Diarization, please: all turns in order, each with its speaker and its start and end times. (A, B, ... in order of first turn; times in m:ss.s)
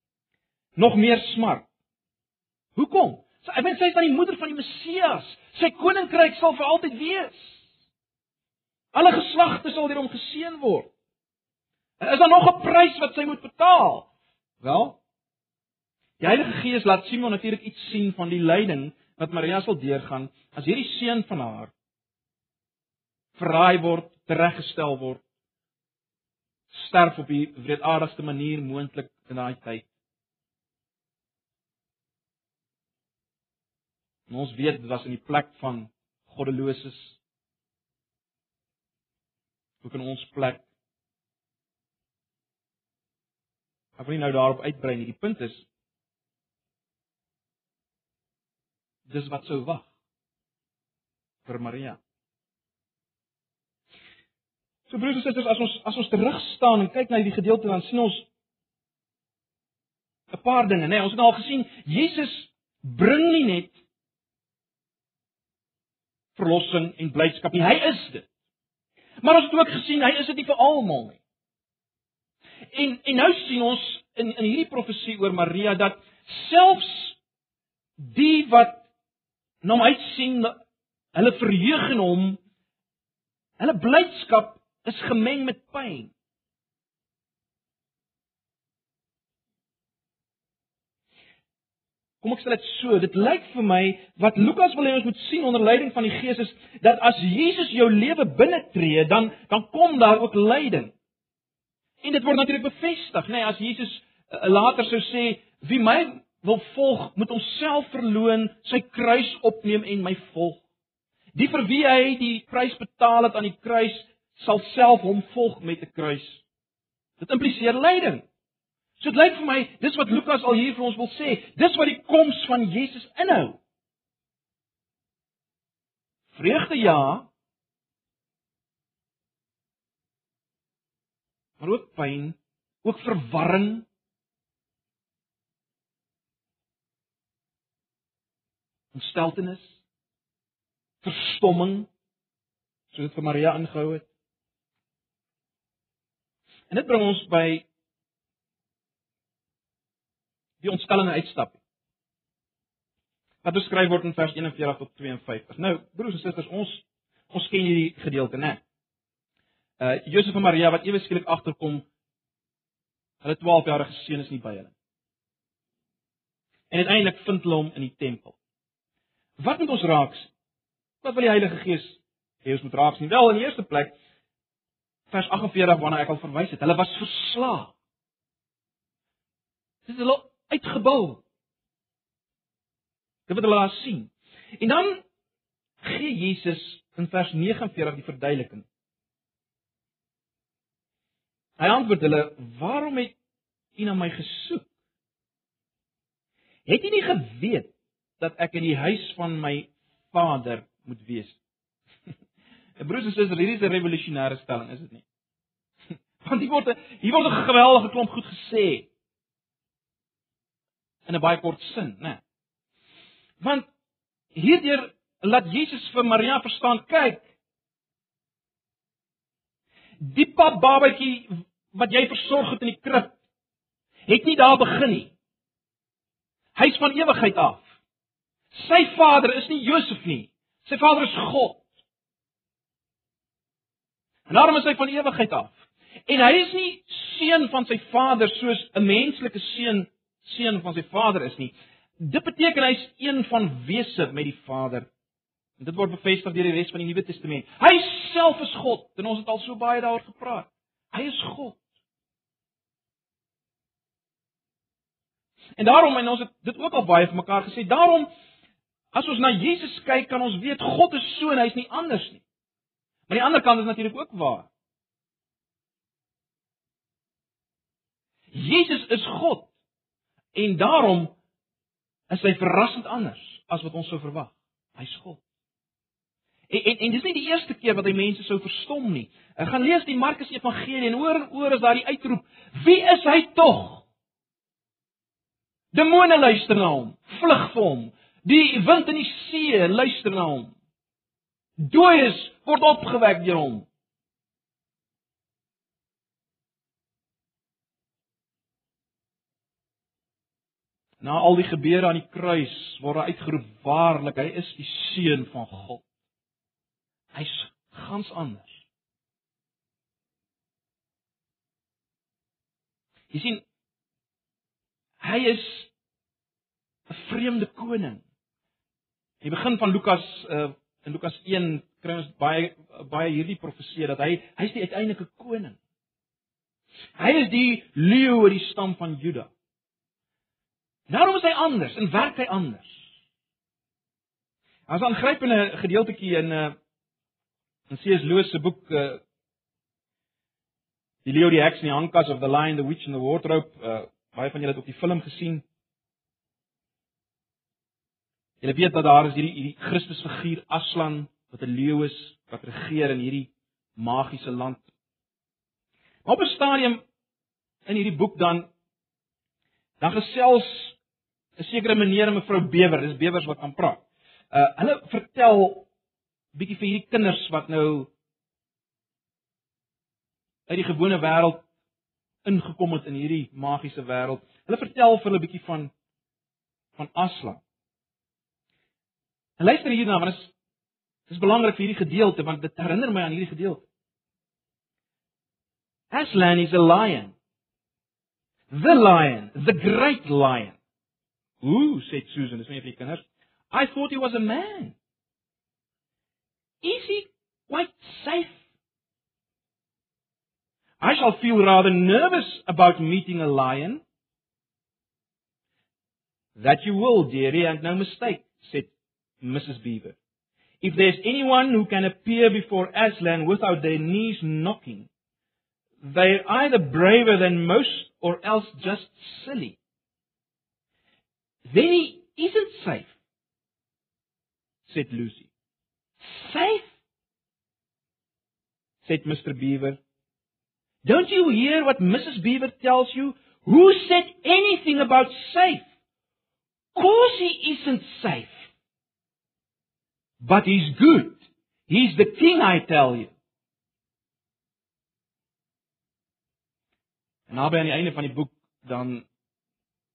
0:00.8-0:01.7 A
0:02.8-0:07.6 A
0:08.9-0:10.9 A
0:12.0-0:15.0 A
0:16.2-0:21.7 A
0:23.4-0:25.2 A
0:26.7-0:29.9 A
0:34.3-0:37.2 A
0:39.8-0:40.6 A
0:44.0-0:45.7 A
0:49.1-0:49.9 A
0:51.5-0:52.0 A
0:54.9-0:58.3 A
1:00.3-1:03.8 A
1:06.4-1:08.3 A
1:09.2-1:11.2 A
1:12.7-1:17.2 A
1:18.0-1:18.8 A
1:19.6-1:20.6 A
1:21.1-1:22.4 A
1:23.6-1:26.1 A
1:32.2-1:40.9 A
1:42.0-1:50.6 A
1:51.4-1:56.4 A
1:57.2-1:58.3 A
1:59.0-2:03.6 A
2:06.3-2:07.3 A
2:11.6-2:13.9 A
2:18.9-2:19.8 A
2:21.0-2:21.9 A
2:22.9-2:24.1 A
2:26.7-2:27.7 A
2:30.6-2:31.6 A
2:33.4-2:38.6 A
2:39.8-2:41.9 A
2:43.2-2:44.7 A
2:46.7-2:48.4 A
2:49.4-2:50.3 A
2:51.0-2:54.0 A
2:55.1-2:57.7 A
2:59.9-3:01.2 A
3:03.3-3:05.0 A
3:05.8-3:08.7 A
3:11.6-3:13.2 A
3:13.8-3:14.7 A
3:16.7-3:21.4 A
3:22.8-3:25.0 A
3:26.2-3:28.9 A
3:31.1-3:32.2 A
3:33.4-3:33.7 A
3:34.4-3:37.3 A
3:40.0-3:43.2 A
3:44.1-3:45.1 A
3:46.6-3:47.7 A
3:48.5-3:51.6 A
3:54.3-4:04.9 A
4:05.6-4:11.6 A
4:15.6-4:18.1 A
4:18.9-4:22.2 A
4:23.1-4:24.5 A
4:28.3-4:29.5 A
4:30.3-4:31.2 A
4:32.1-4:35.2 A
4:36.5-4:43.9 A
4:45.7-4:50.5 A
4:51.6-4:53.7 A
5:01.0-5:05.8 A
5:07.1-5:08.6 A
5:13.1-5:13.4 A
5:15.0-5:15.7 A
5:16.9-5:18.0 A
5:19.2-5:25.6 A
5:27.0-5:29.3 A
5:30.9-5:32.8 A
5:34.7-5:36.6 A
5:37.7-5:39.0 A
5:41.0-5:45.4 A
5:48.4-5:54.6 A
5:56.0-5:56.8 A
5:57.7-5:58.5 A
5:59.8-6:00.8 A
6:01.4-6:05.7 A
6:06.3-6:07.9 A
6:10.5-6:11.5 A
6:12.2-6:15.7 A
6:16.8-6:17.4 A
6:19.4-6:20.3 A
6:21.1-6:23.7 A
6:25.9-6:27.1 A
6:28.5-6:30.6 A
6:31.4-6:34.8 A
6:36.6-6:38.4 A
6:40.8-6:43.8 A
6:46.4-6:50.0 A
6:50.6-6:54.9 A
6:55.8-6:59.6 A
7:01.5-7:02.9 A
7:04.6-7:05.3 A
7:06.0-7:06.7 A
7:08.8-7:09.8 A
7:10.8-7:15.7 A
7:16.7-7:18.5 A
7:20.2-7:23.1 A
7:27.3-7:29.0 A